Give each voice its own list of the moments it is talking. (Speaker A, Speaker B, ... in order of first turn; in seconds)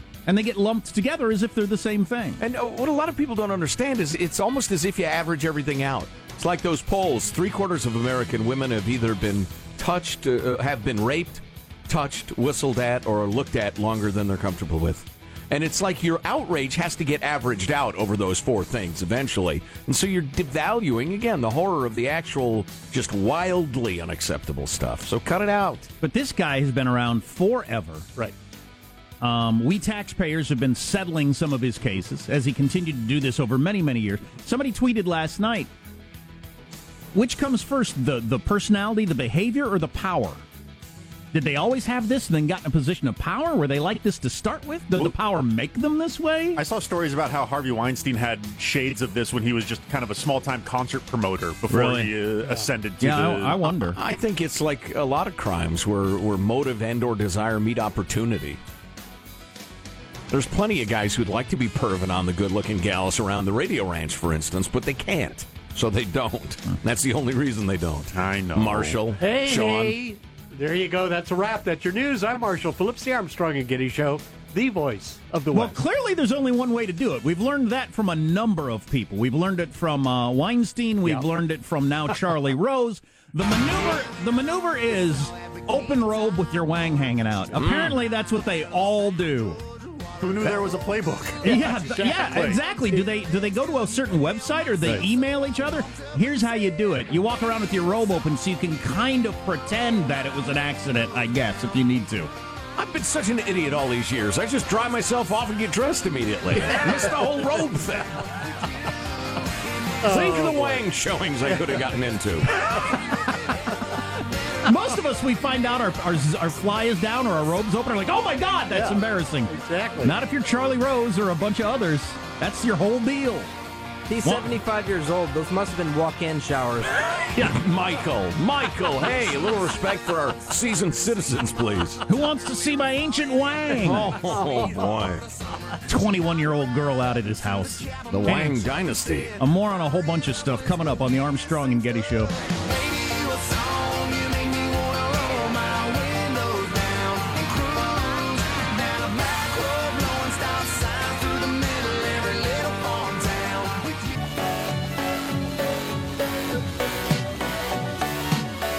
Speaker A: 0.3-2.4, 26.0-28.1, 29.2-35.7, 37.1-40.4, 41.3-46.6, 51.7-52.1, 53.0-54.0, 75.5-89.6, 91.4-102.3, 114.7-123.5, 124.2-124.5, 132.1-134.2, 135.8-138.7, 139.4-142.3
Speaker B: 2.4-25.9, 53.8-58.6, 60.3-70.0, 87.5-88.0, 102.8-108.2, 110.0-112.5, 127.3-132.0, 133.7-135.2, 138.2-139.3
Speaker C: 46.6-53.7, 68.1-69.0, 90.2-91.5
Speaker D: 69.2-75.8, 91.5-93.0, 110.0-110.8, 118.7-120.2, 145.4-145.8, 146.4-147.4, 149.8-151.1
Speaker E: 124.1-127.0